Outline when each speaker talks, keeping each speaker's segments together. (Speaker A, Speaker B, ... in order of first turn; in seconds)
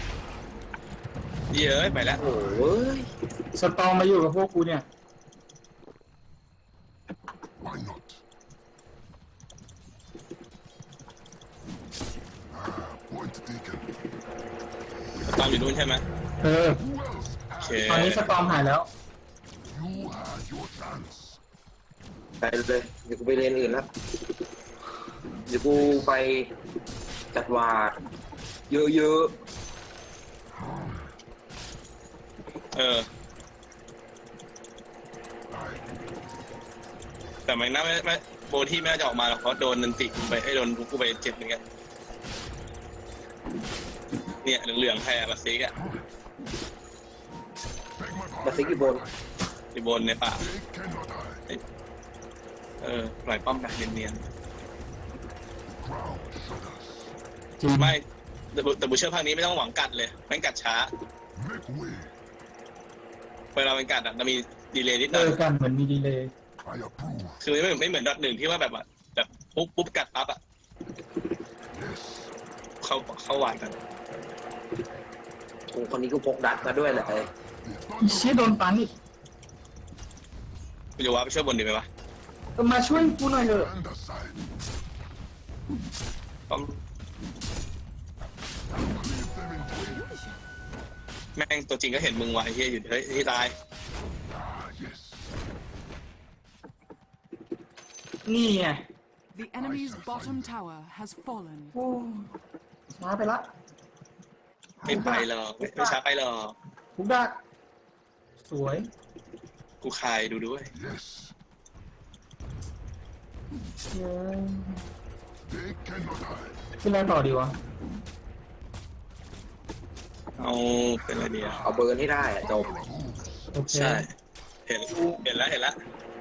Speaker A: 1.5-2.2, 15.2-16.0, 17.6-18.3, 32.7-33.0, 37.5-41.6, 44.4-45.8, 49.7-50.5, 52.8-54.2, 57.8-60.9, 63.5-65.4, 67.4-70.4, 72.8-73.8, 81.0-81.9, 86.5-86.8, 91.3-93.5, 104.9-106.5, 109.8-110.7, 120.4-121.6, 123.7-124.1, 124.7-125.8
Speaker B: 2.1-2.8, 7.6-8.2, 12.5-13.9, 16.8-18.6, 19.7-21.4, 35.5-35.9, 48.0-49.2, 50.4-51.4, 55.7-57.1, 61.3-62.1, 66.6-67.4, 71.7-72.3, 76.5-78.9, 83.3-84.4, 88.7-90.1, 94.3-95.3, 99.5-100.5, 110.7-111.3, 115.5-116.6, 121.4-123.5
Speaker C: 2.2-3.1, 22.4-23.9, 25.5-26.5, 27.3-28.0, 28.7-29.3, 48.4-49.0, 75.7-77.3, 121.6-122.7
Speaker D: 3.5-4.8, 16.4-16.8, 17.9-18.9, 57.6-58.0, 65.1-66.3, 78.0-78.9, 82.6-83.7, 98.2-98.8, 101.7-102.3, 102.9-103.5, 104.8-106.0, 107.0-107.3, 108.4-108.9, 113.9-114.8, 116.8-117.5, 123.5-124.0, 124.9-125.2
Speaker E: 99.3-101.7